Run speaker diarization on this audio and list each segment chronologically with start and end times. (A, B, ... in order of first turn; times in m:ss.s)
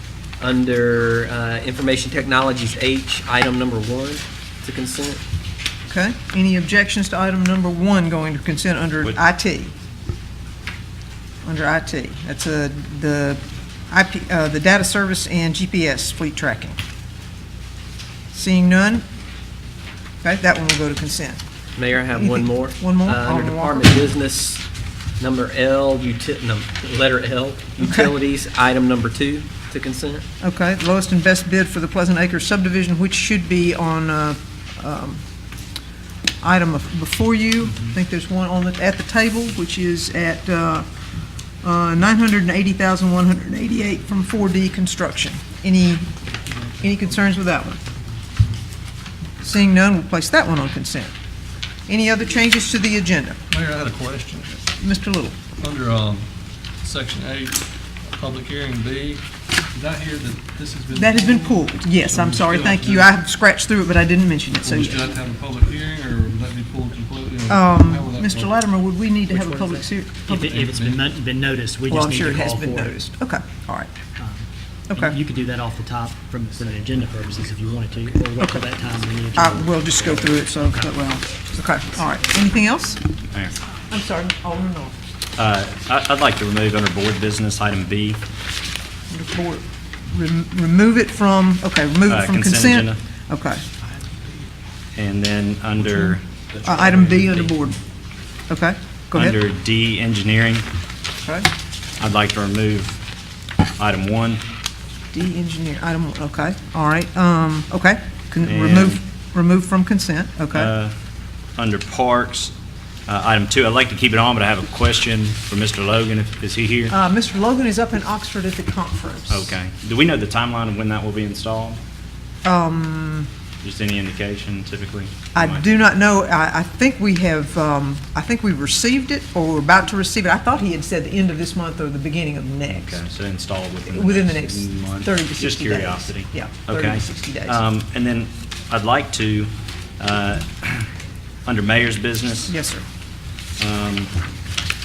0:00.4-0:05.2 A
0:05.9-0:09.7 B
0:11.4-0:16.8 B
0:18.3-0:19.0 B
0:20.2-0:21.4 B
0:21.8-0:24.6 A
0:22.1-0:24.0 B
0:25.2-0:30.2 A
0:27.8-0:28.1 B
0:30.4-0:35.2 B
0:36.4-0:40.9 B
0:41.6-0:46.1 B
0:46.8-0:47.8 B
0:49.4-0:51.1 B
0:51.9-0:53.4 B
0:53.5-0:54.5 C
0:54.6-0:55.4 B
0:55.6-0:56.2 C
0:56.8-0:57.6 C
0:58.1-0:59.2 C
0:59.7-1:03.1 C
1:01.0-1:05.0 B
1:04.6-1:08.5 C
1:07.5-1:10.6 B
1:09.3-1:12.9 D
1:10.6-1:11.0 C
1:11.9-1:13.9 B
1:14.2-1:21.1 D
1:14.9-1:15.2 B
1:18.4-1:18.6 B
1:19.4-1:23.0 B
1:23.9-1:25.0 B
1:25.4-1:28.2 E
1:29.1-1:33.6 B
1:32.1-1:33.0 E
1:35.0-1:36.2 E
1:36.5-1:37.6 A
1:36.6-1:37.8 B
1:38.5-1:39.4 B
1:39.1-1:40.7 E
1:42.0-1:43.0 E
1:43.8-1:44.4 E
1:45.1-1:50.7 B
1:48.4-1:49.0 E
1:50.5-1:51.0 E
1:51.6-1:52.5 E
1:53.1-1:56.9 E
1:56.9-1:59.5 B
1:59.3-2:01.8 E
2:02.4-2:03.3 B
2:03.6-2:05.6 E
2:05.4-2:13.0 B
2:12.7-2:20.9 E
2:13.9-2:17.6 B
2:21.5-2:22.5 E
2:22.5-2:22.8 B
2:23.6-2:24.1 E